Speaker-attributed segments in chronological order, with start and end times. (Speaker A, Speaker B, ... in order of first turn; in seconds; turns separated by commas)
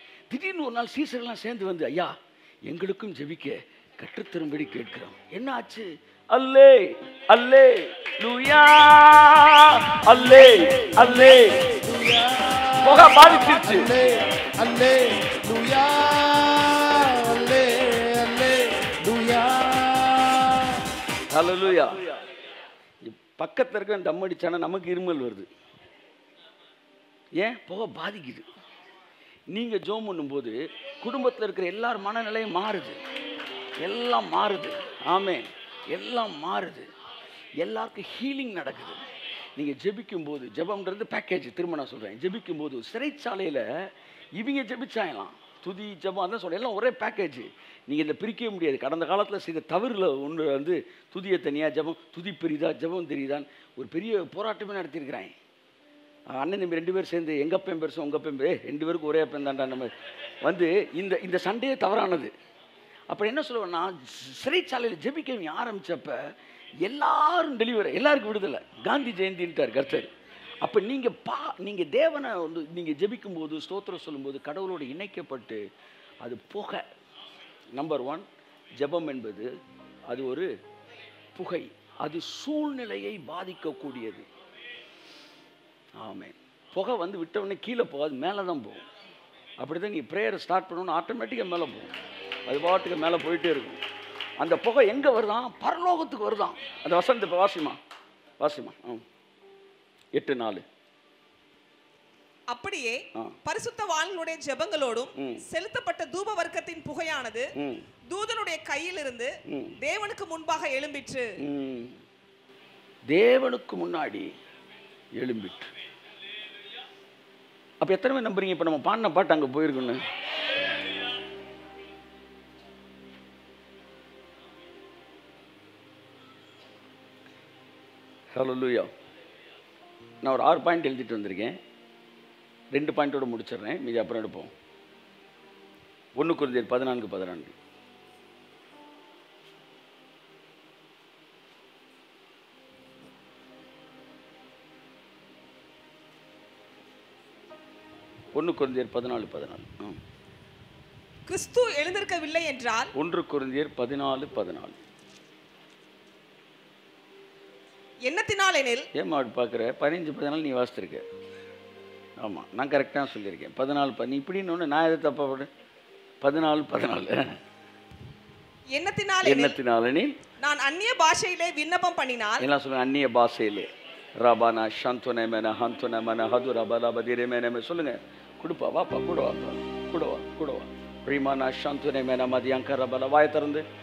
Speaker A: 0.3-11.8, Speaker B: 11.3-20.9, Speaker A: 12.8-13.9, Speaker A: 21.3-22.2, Speaker A: 23.0-25.5, Speaker A: 27.4-28.5, Speaker A: 29.5-33.0, Speaker A: 33.8-36.9, Speaker A: 37.6-39.0, Speaker A: 39.6-55.3, Speaker A: 56.3-62.3, Speaker A: 63.1-66.2, Speaker A: 66.8-75.6, Speaker A: 76.2-76.9, Speaker A: 77.7-79.5, Speaker A: 80.1-80.5, Speaker A: 81.3-84.3, Speaker A: 86.0-88.9, Speaker A: 89.6-91.9, Speaker A: 92.5-93.8, Speaker A: 94.4-97.8, Speaker A: 98.4-99.0, Speaker A: 100.1-100.6, Speaker C: 102.5-107.5, Speaker A: 105.2-105.4, Speaker A: 107.6-107.9, Speaker C: 108.1-111.3, Speaker A: 109.5-109.8, Speaker A: 111.4-112.0, Speaker A: 113.1-114.3, Speaker A: 115.2-115.7, Speaker A: 117.8-120.0, Speaker A: 128.3-128.9, Speaker A: 130.2-131.6, Speaker A: 132.7-134.5, Speaker A: 136.2-137.5, Speaker A: 148.3-150.0, Speaker C: 151.3-152.9, Speaker A: 152.9-154.8, Speaker C: 158.1-158.9, Speaker A: 158.9-161.1, Speaker A: 162.2-165.5, Speaker A: 166.2-167.4, Speaker C: 168.7-169.6, Speaker A: 169.2-170.2, Speaker C: 170.4-172.4, Speaker A: 172.4-183.7